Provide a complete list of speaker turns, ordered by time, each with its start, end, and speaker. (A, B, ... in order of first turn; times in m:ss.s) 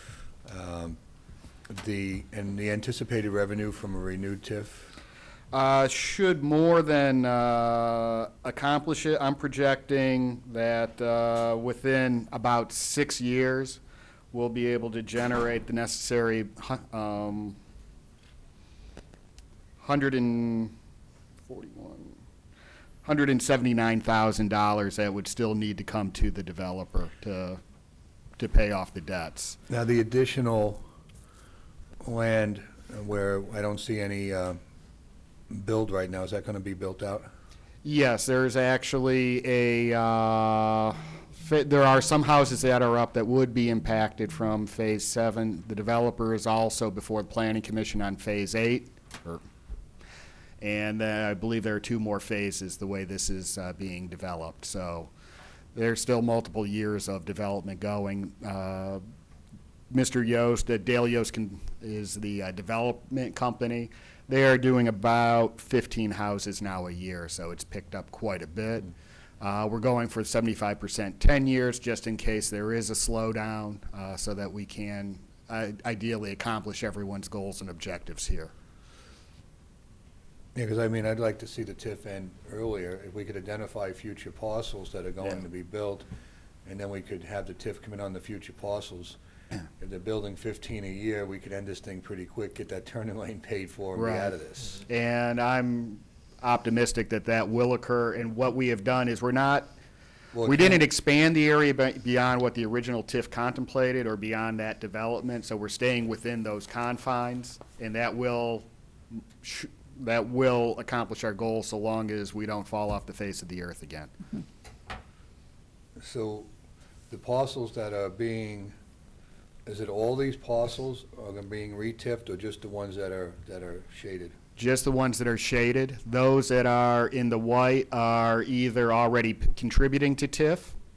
0:00.4-0:01.0 A
0:01.7-0:05.0 A
0:05.5-0:13.8 B
0:14.3-0:17.6 B
0:19.8-0:20.7 B
0:21.5-0:22.2 B
0:23.0-0:27.6 B
0:28.4-0:29.6 B
0:29.7-0:30.8 A
0:32.0-0:34.6 A
0:35.5-0:37.3 A
0:37.8-0:49.4 B
0:50.6-0:55.1 B
0:55.7-0:59.0 B
0:59.9-1:18.5 B
1:20.6-1:26.1 A
1:26.6-1:29.2 A
1:29.8-1:34.8 A
1:34.0-1:39.7 B
1:40.3-1:40.8 A
1:40.4-1:48.6 B
1:49.4-1:54.1 B
1:56.0-1:56.5 A
1:57.1-1:58.8 A
1:59.7-2:04.4 A
2:04.6-2:10.8 B